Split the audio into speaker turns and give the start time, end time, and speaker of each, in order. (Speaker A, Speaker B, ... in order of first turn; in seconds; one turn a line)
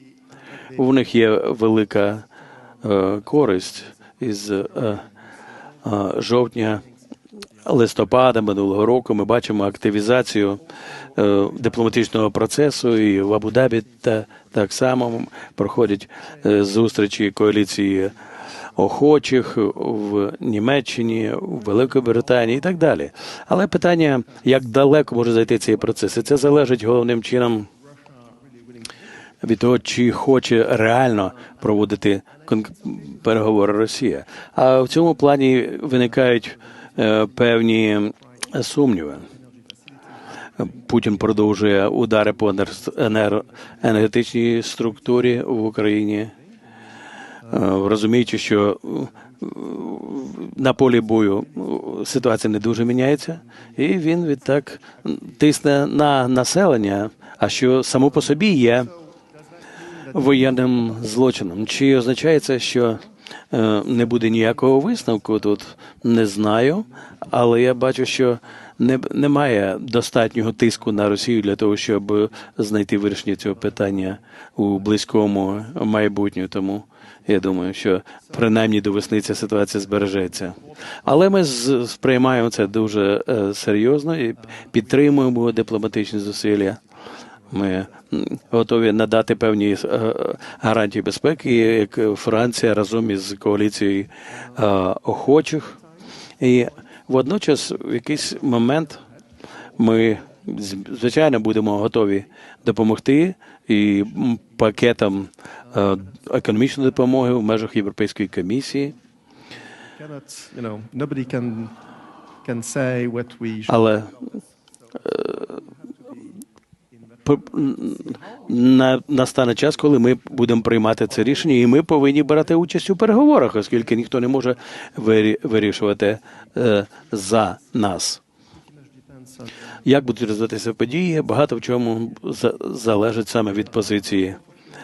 Speaker A: 0.7-2.2
Speaker A: 2.8-5.0
Speaker A: 5.8-6.8
Speaker A: 7.6-10.6
Speaker A: 11.1-18.1
Speaker A: 18.8-27.7
Speaker A: 29.4-39.2
Speaker B: 39.3-39.7
Speaker A: 40.6-46.3
Speaker A: 47.5-58.9
Speaker B: 59.7-60.2
Speaker A: 60.1-86.8
Speaker A: 87.5-95.8
Speaker A: 96.4-99.0
Speaker A: 99.8-108.9
Speaker B: 110.0-111.8
Speaker B: 112.4-113.7
Speaker A: 113.7-114.1
Speaker A: 115.0-115.6
Speaker B: 115.1-116.3
Speaker A: 117.2-128.2
Speaker B: 117.9-118.2
Speaker B: 129.1-129.5
Speaker A: 129.8-134.4